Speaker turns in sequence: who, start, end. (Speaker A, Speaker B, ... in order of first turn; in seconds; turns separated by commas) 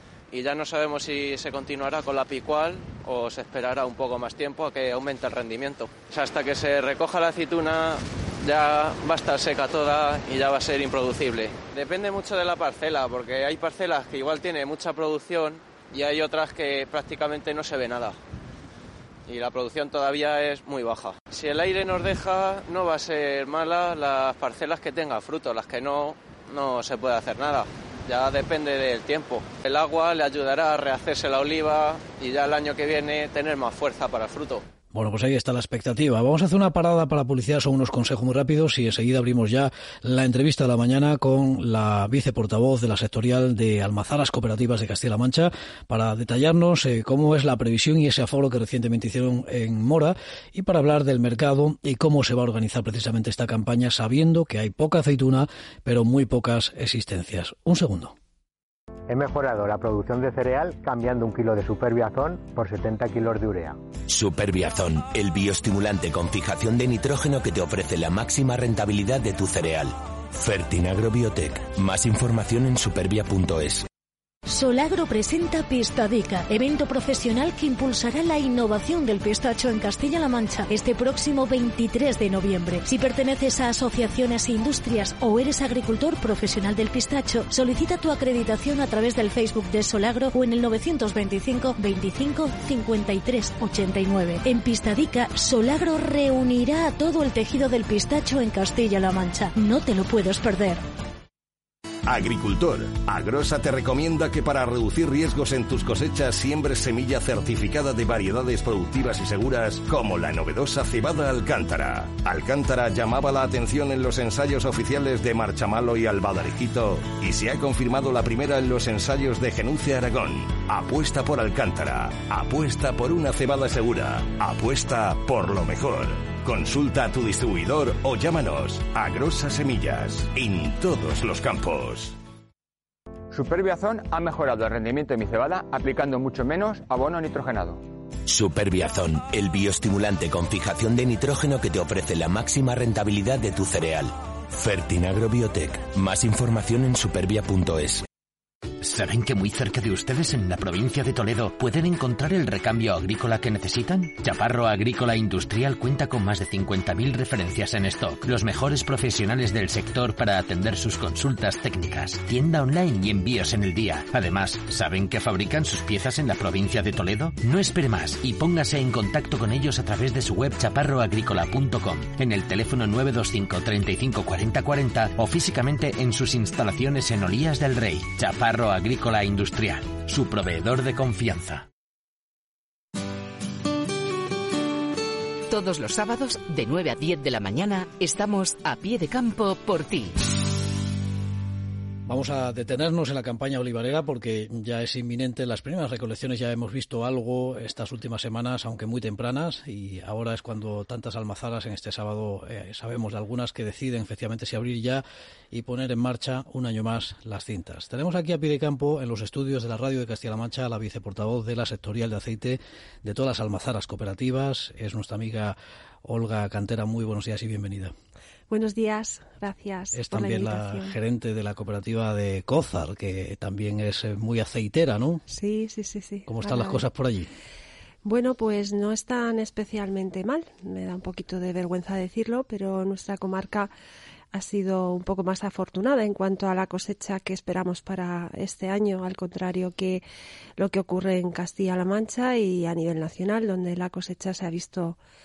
Speaker A: 0.3-18.2, Speaker A: 19.3-34.6, Speaker B: 34.9-58.1, Speaker C: 59.1-63.8, Speaker D: 64.1-73.9, Speaker E: 74.5-100.8, Speaker F: 102.1-132.2, Speaker G: 133.4-137.5, Speaker D: 138.3-148.1, Speaker H: 148.8-181.7, Speaker I: 185.5-190.2, Speaker B: 192.1-217.9, Speaker J: 218.5-220.9, Speaker B: 219.9-225.2, Speaker J: 225.3-226.8, Speaker B: 226.3-227.3, Speaker J: 228.1-233.7, Speaker J: 234.3-240.0, Speaker J: 240.6-245.0